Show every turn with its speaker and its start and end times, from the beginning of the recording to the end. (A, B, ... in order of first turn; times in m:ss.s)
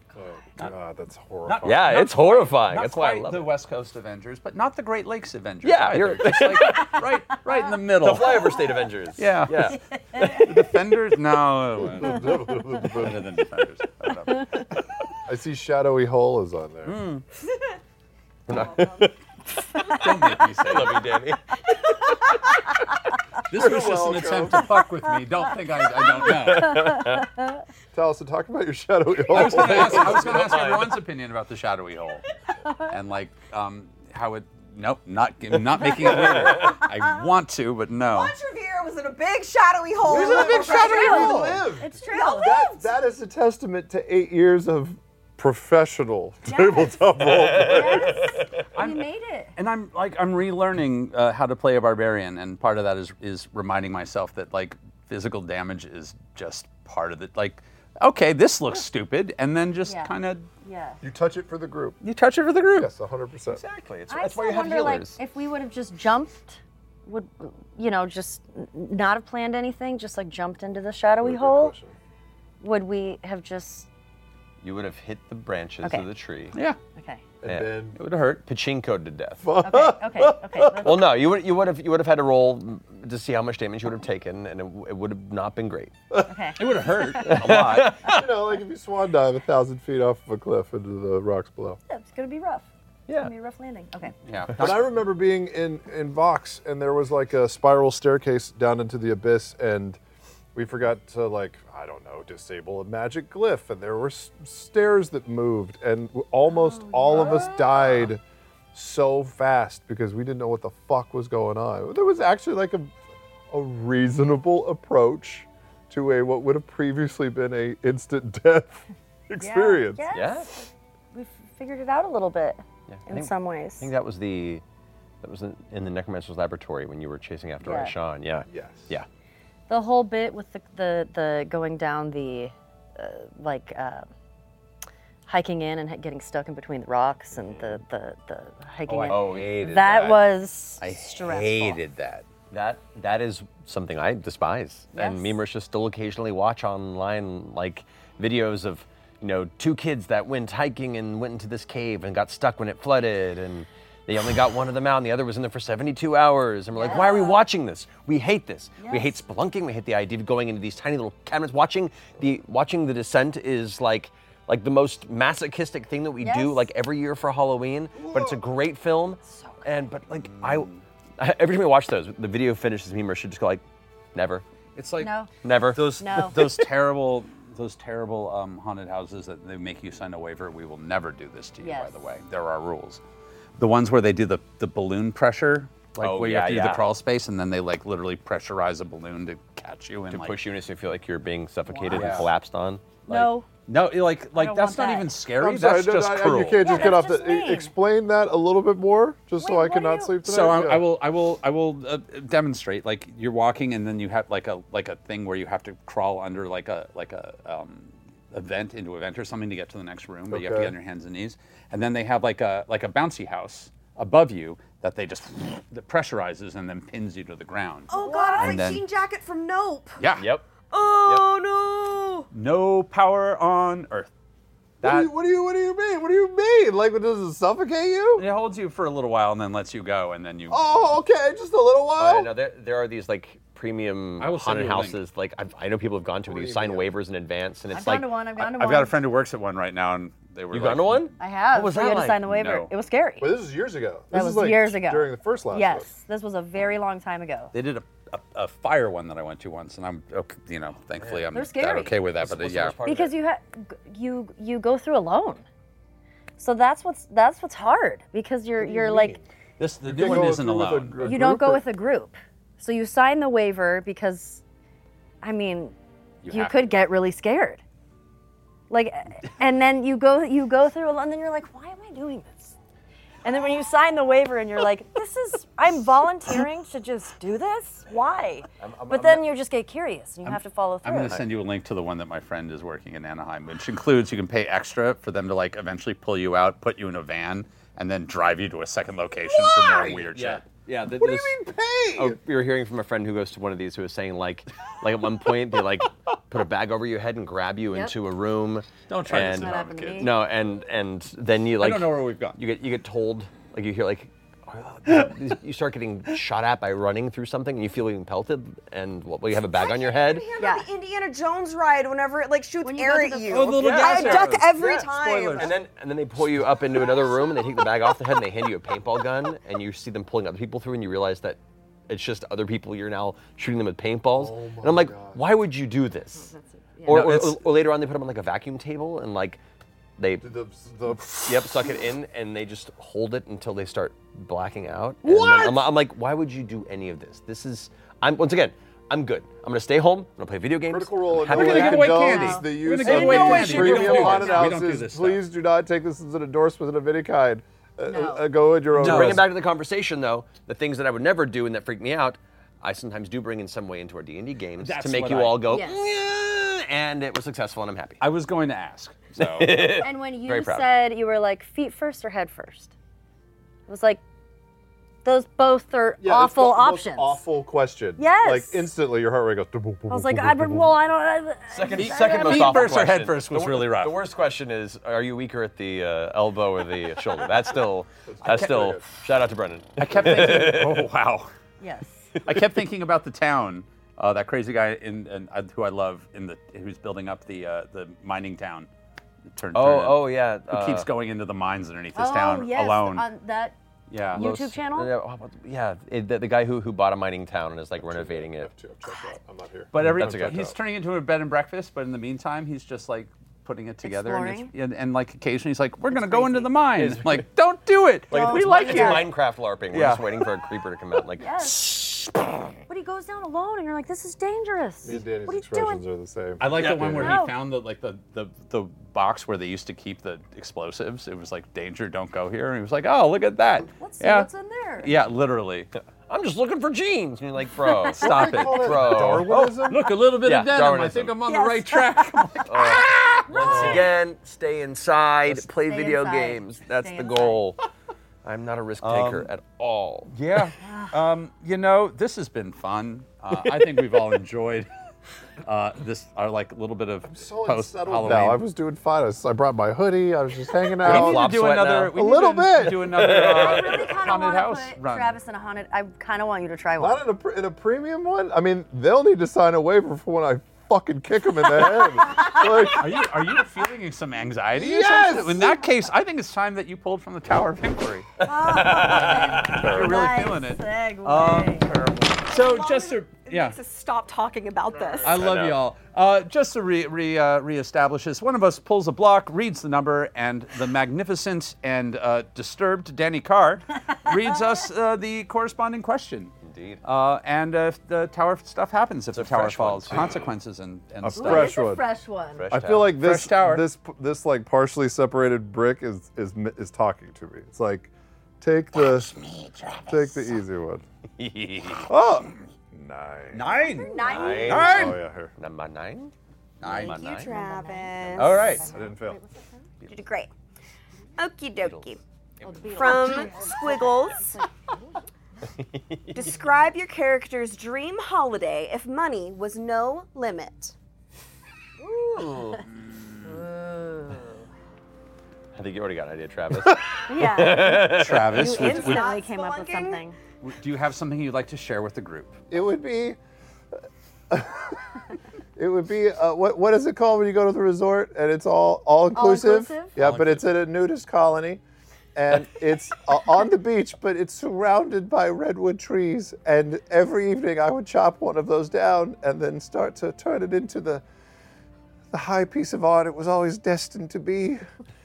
0:00.2-0:02.1 A
0:01.4-0:08.6 B
0:01.6-0:03.5 C
0:05.6-0:07.0 C
0:08.0-0:10.6 C
0:09.2-0:14.7 B
0:09.8-0:10.4 D
0:11.8-0:13.3 A
0:14.3-0:14.6 D
0:15.3-0:17.0 A
0:16.8-0:17.2 B
0:18.5-0:19.2 C
0:18.5-0:19.0 E
0:19.8-0:20.1 C
0:19.9-0:21.2 B
0:20.7-0:21.6 C
0:23.5-0:27.1 B
0:23.5-0:24.7 A
0:26.0-0:27.3 C
0:27.0-0:27.5 D
0:27.9-0:30.6 A
0:29.3-0:32.2 B
0:29.3-0:31.0 C
0:32.9-0:38.4 B
0:35.8-0:36.9 C
0:38.0-0:42.9 E
0:40.0-0:48.3 A
0:40.1-0:42.7 D
0:46.4-0:49.5 D
0:47.2-0:48.6 C
0:48.7-1:00.5 B
0:59.8-1:01.0 D
1:01.0-1:02.0 A
1:02.0-1:02.9 B
1:02.8-1:03.6 A
1:03.5-1:05.2 C
1:04.1-1:11.8 D
1:11.2-1:12.0 A
1:12.6-1:13.9 D
1:14.6-1:16.6 C
1:17.0-1:17.2 D
1:17.4-1:18.0 A
1:17.4-1:26.0 C
1:18.0-1:18.4 B
1:19.4-1:20.3 A
1:19.6-1:21.2 D
1:26.3-1:26.6 D
1:26.6-1:28.2 B
1:27.2-1:28.3 C
1:28.0-1:31.8 A
1:31.9-1:32.7 D
1:33.1-1:33.3 C
1:33.2-1:34.2 D
1:34.3-1:34.9 B
1:34.6-1:40.0 A
1:40.6-1:48.2 A
1:46.5-1:47.8 D
1:48.7-1:53.0 A
1:53.5-2:00.0 A
1:59.4-2:03.9 D
2:00.1-2:00.7 C
2:02.9-2:04.6 C
2:05.2-2:09.1 C
2:07.6-2:07.9 D
2:08.5-2:08.9 A
2:09.7-2:14.1 D
2:15.3-2:21.8 D
2:18.9-2:20.2 B
2:19.1-2:20.1 C
2:20.8-2:22.2 B
2:22.5-2:53.6 C
2:24.9-2:25.4 D
2:36.8-2:37.4 D
2:38.8-2:39.2 D
2:46.2-2:46.7 D
2:48.0-2:48.4 A
2:49.2-2:49.7 D
2:50.1-2:50.8 B
2:54.1-2:54.4 C
2:54.8-2:55.1 B
2:55.0-2:55.3 D
2:55.4-2:56.6 C
2:55.8-3:03.0 B
2:56.0-2:56.4 D
3:01.6-3:02.1 D
3:03.6-3:10.4 B
3:06.0-3:06.9 C
3:10.1-3:13.3 C
3:11.7-3:12.3 D
3:11.9-3:12.3 B
3:13.1-3:13.5 D
3:13.7-3:16.6 B
3:14.4-3:15.1 D
3:15.4-3:20.9 A
3:16.6-3:17.7 D
3:19.4-3:20.2 D
3:20.2-3:38.8 B
3:30.3-3:30.7 A
3:37.9-3:40.0 E
3:37.9-3:38.6 D
3:40.0-3:40.3 B
3:40.2-3:40.5 C
3:40.6-3:42.3 E
3:42.3-3:44.1 B
3:44.8-3:45.1 B
3:44.8-3:48.3 A
3:48.2-3:50.6 B
3:50.5-3:52.3 A
3:52.0-3:58.1 C
3:54.2-3:55.0 B
3:56.2-3:56.9 A
3:57.7-3:59.0 D
3:58.4-4:01.1 B
4:00.5-4:02.2 C
4:01.2-4:03.3 D
4:02.2-4:02.7 B
4:03.2-4:05.9 A
4:04.1-4:07.5 D
4:07.5-4:12.8 B
4:11.0-4:11.5 C
4:11.3-4:12.0 D
4:12.2-4:13.2 C
4:12.8-4:15.4 D
4:16.4-4:19.2 D
4:18.6-4:19.2 A
4:19.6-4:20.4 C
4:19.8-4:21.1 B
4:19.8-4:21.6 A
4:21.0-4:24.4 D
4:25.2-4:25.8 D
4:26.2-4:26.7 B
4:26.3-4:27.6 D
4:28.7-4:32.6 D
4:33.2-4:41.2 D
4:38.6-4:39.3 C
4:40.2-4:50.5 B
4:49.4-4:50.0 A
4:49.8-4:51.4 C
4:50.9-4:52.2 A
4:51.9-5:10.3 C
4:58.9-5:00.1 B
4:59.3-5:00.1 D
5:01.6-5:02.4 B
5:09.4-5:15.6 E
5:10.4-5:10.7 D
5:12.6-5:13.5 D
5:13.3-5:15.6 B
5:13.6-5:26.3 C
5:16.8-5:17.9 E
5:24.1-5:25.2 A
5:26.3-5:27.0 D
5:26.8-5:29.4 C
5:26.9-5:27.4 B
5:30.0-5:30.3 C
5:30.2-5:31.6 A
5:31.2-5:42.1 C
5:35.0-5:35.6 B
5:35.2-5:35.6 A
5:40.7-5:49.3 A
5:41.3-5:45.2 B
5:42.0-5:42.5 D
5:42.8-5:44.4 C
5:44.0-5:44.5 D
5:47.9-5:48.3 D
5:48.8-5:49.3 B
5:48.8-5:58.0 C
5:54.6-5:55.5 B
5:55.5-5:55.8 D
5:58.0-5:59.8 B
5:59.2-6:00.7 C
5:59.8-6:02.7 D
6:03.7-6:04.0 D
6:05.0-6:07.2 D
6:06.0-6:10.8 A
6:08.0-6:08.7 D
6:09.9-6:12.9 D
6:11.5-6:20.9 C
6:11.7-6:14.0 B
6:18.1-6:18.9 A
6:18.2-6:18.7 B
6:19.8-6:21.3 B
6:21.6-6:22.1 D
6:22.3-6:28.7 B
6:29.3-6:33.0 B
6:29.5-6:30.9 C
6:32.0-6:33.6 D
6:33.9-6:34.2 B
6:34.1-6:38.5 C
6:34.1-6:34.9 D
6:37.8-6:40.5 A
6:39.7-6:49.2 B
6:39.8-6:40.6 C
6:43.8-6:44.5 D
6:45.9-6:46.5 D
6:46.8-6:47.2 C
6:48.1-6:51.3 C
6:48.1-6:49.1 D
6:49.7-6:50.2 B
6:51.2-6:51.8 D
6:52.7-6:55.8 D
6:54.8-6:57.2 A
6:56.4-7:04.3 B
6:56.6-6:57.2 C
6:57.0-6:57.4 D
7:03.8-7:04.9 D
7:04.8-7:05.7 B
7:06.1-7:09.5 C
7:07.9-7:13.9 B
7:08.0-7:08.4 D
7:08.0-7:10.0 A
7:10.2-7:11.1 C
7:11.3-7:12.1 D
7:12.5-7:17.6 C
7:12.7-7:13.7 D
7:13.4-7:13.8 A
7:15.6-7:17.4 D
7:18.2-7:20.1 C
7:18.8-7:19.3 B
7:20.1-7:24.7 B
7:20.6-7:21.0 D
7:25.4-7:28.4 B
7:27.1-7:31.3 A
7:30.8-7:31.9 C
7:30.8-7:35.2 B
7:31.9-7:33.3 A
7:32.8-7:33.8 C
7:33.3-7:37.0 D
7:36.8-7:43.1 A
7:42.1-7:42.4 D
7:42.7-7:48.1 B
7:44.6-7:45.6 A
7:48.2-7:49.9 C
7:48.2-7:51.7 D
7:48.8-7:53.6 B
7:49.5-7:50.0 A
7:52.3-7:55.1 E
7:55.0-8:11.6 B
7:55.1-7:55.6 C
8:06.4-8:06.8 C
8:09.1-8:10.3 C
8:11.0-8:11.8 A
8:11.2-8:12.5 D
8:12.4-8:13.0 C
8:12.5-8:19.1 A
8:12.9-8:13.6 B
8:18.8-8:20.4 B
8:19.9-8:20.8 A
8:21.2-8:21.9 C
8:21.9-8:23.5 A
8:23.3-8:25.0 B
8:23.5-8:24.9 D
8:24.0-8:27.3 C
8:24.6-8:25.3 A
8:26.6-8:27.0 B
8:26.8-8:28.5 E
8:27.2-8:29.7 D
8:28.2-8:28.6 B
8:28.6-8:29.2 A
8:29.9-8:30.3 E
8:31.2-8:32.0 E
8:31.6-8:33.5 C
8:32.4-8:34.4 D
8:32.7-8:34.3 E
8:35.5-8:36.2 C
8:36.1-8:40.8 E
8:41.8-8:42.7 C
8:43.6-8:44.2 D
8:45.6-8:48.6 C
8:47.1-8:50.2 D
8:47.8-8:49.1 B
8:48.4-8:50.1 E
8:50.4-8:52.4 B
8:52.5-8:53.2 A
8:54.3-8:54.8 A
8:55.6-9:01.6 A
8:59.1-8:59.9 D
9:00.0-9:00.5 B
9:02.2-9:11.0 A
9:12.1-9:14.6 A